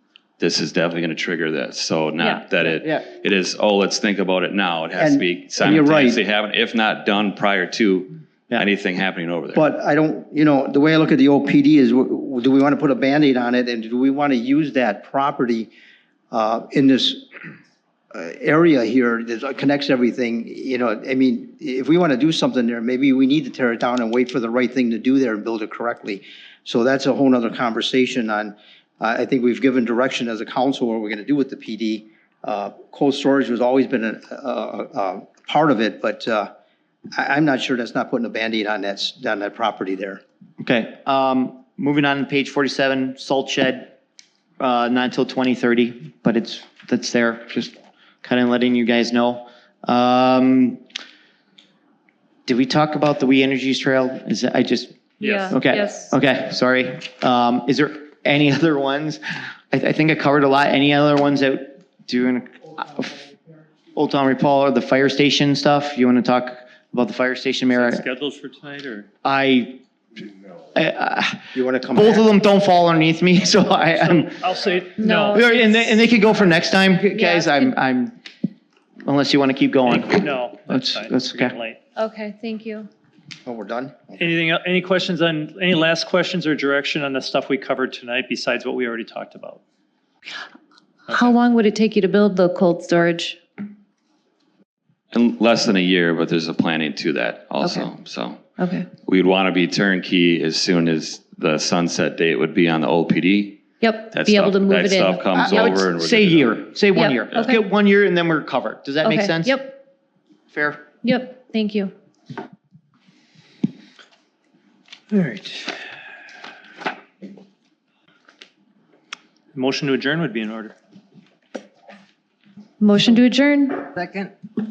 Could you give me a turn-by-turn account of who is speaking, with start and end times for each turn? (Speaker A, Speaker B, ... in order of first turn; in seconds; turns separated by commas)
Speaker A: 0.4-9.6, Speaker B: 5.0-6.2, Speaker B: 9.5-15.7, Speaker B: 16.3-17.2, Speaker B: 18.1-36.5, Speaker B: 37.1-40.2, Speaker C: 40.6-43.9, Speaker C: 44.6-50.8, Speaker C: 52.5-63.3, Speaker A: 55.2-55.6, Speaker D: 55.2-56.1, Speaker C: 63.9-68.0, Speaker E: 67.7-69.1, Speaker C: 69.2-69.8, Speaker C: 70.7-74.5, Speaker B: 71.5-72.3, Speaker E: 74.0-75.4, Speaker D: 75.0-75.7, Speaker C: 75.3-78.2, Speaker D: 77.1-77.7, Speaker C: 79.0-81.5, Speaker E: 79.9-81.8, Speaker D: 82.0-82.9, Speaker B: 83.4-84.2, Speaker E: 84.2-89.6, Speaker E: 91.1-91.3, Speaker D: 91.1-93.4, Speaker A: 95.1-98.4, Speaker D: 98.6-98.9, Speaker A: 99.0-106.7, Speaker D: 103.8-105.3, Speaker C: 105.3-109.7, Speaker D: 106.9-107.6, Speaker D: 109.0-109.8, Speaker C: 110.5-110.9, Speaker D: 111.0-111.9, Speaker E: 115.1-115.8, Speaker E: 119.5-120.7, Speaker D: 122.8-123.9